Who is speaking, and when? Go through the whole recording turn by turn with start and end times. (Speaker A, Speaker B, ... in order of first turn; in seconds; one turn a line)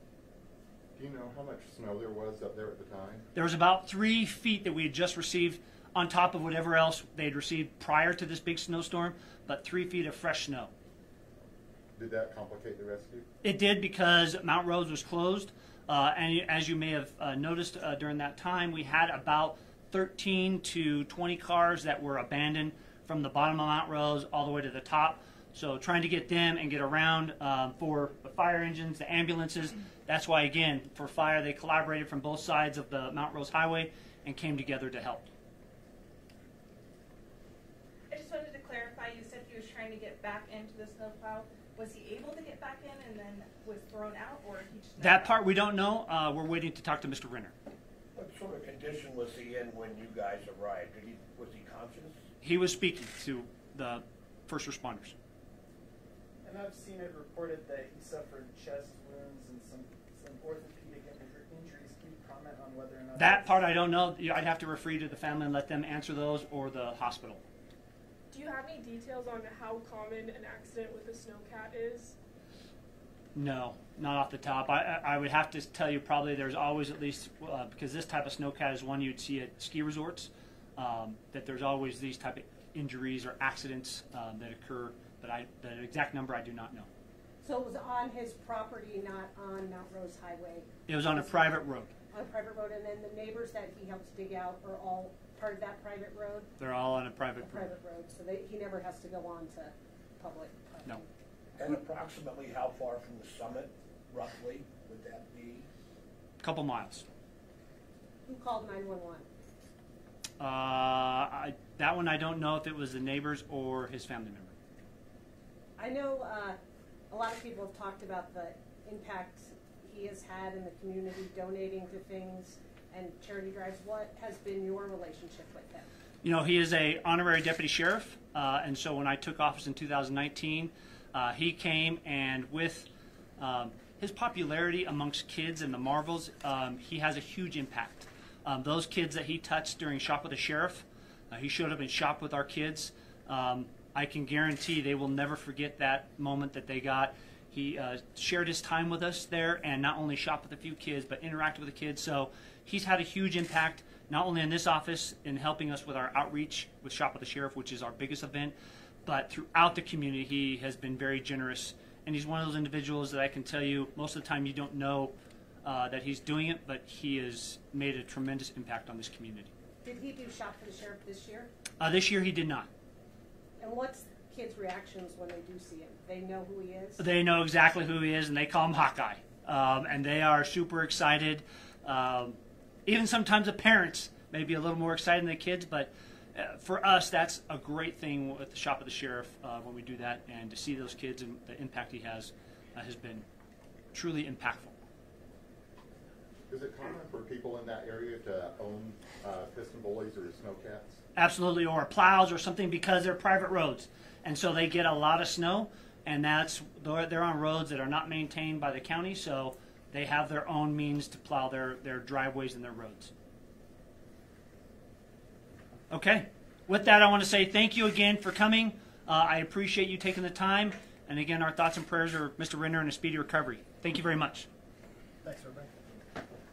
Speaker A: 0.9-3.3
Speaker B: 3.4-10.7
Speaker A: 12.0-13.2
Speaker B: 13.4-35.3
Speaker C: 38.1-45.4
Speaker B: 45.0-47.5
Speaker D: 48.1-52.2
Speaker B: 52.4-55.2
Speaker E: 56.4-63.7
Speaker B: 63.2-67.4
Speaker F: 68.3-72.2
Speaker B: 73.3-86.9
Speaker G: 87.4-91.6
Speaker B: 90.9-91.9
Speaker G: 92.1-96.5
Speaker B: 96.6-97.7
Speaker G: 97.4-101.1
Speaker D: 101.6-105.7
Speaker B: 106.4-107.1
Speaker G: 108.2-109.2
Speaker B: 110.4-114.5
Speaker G: 115.8-116.6
Speaker G: 117.1-125.9
Speaker B: 126.2-158.5
Speaker B: 159.1-169.5
Speaker G: 169.8-171.5
Speaker B: 171.8-172.7
Speaker G: 173.6-177.0
Speaker B: 177.0-193.2
Speaker B: 193.9-194.8
Speaker A: 196.5-201.0
Speaker B: 201.2-213.1
Speaker B: 215.9-224.5
Speaker E: 225.3-225.7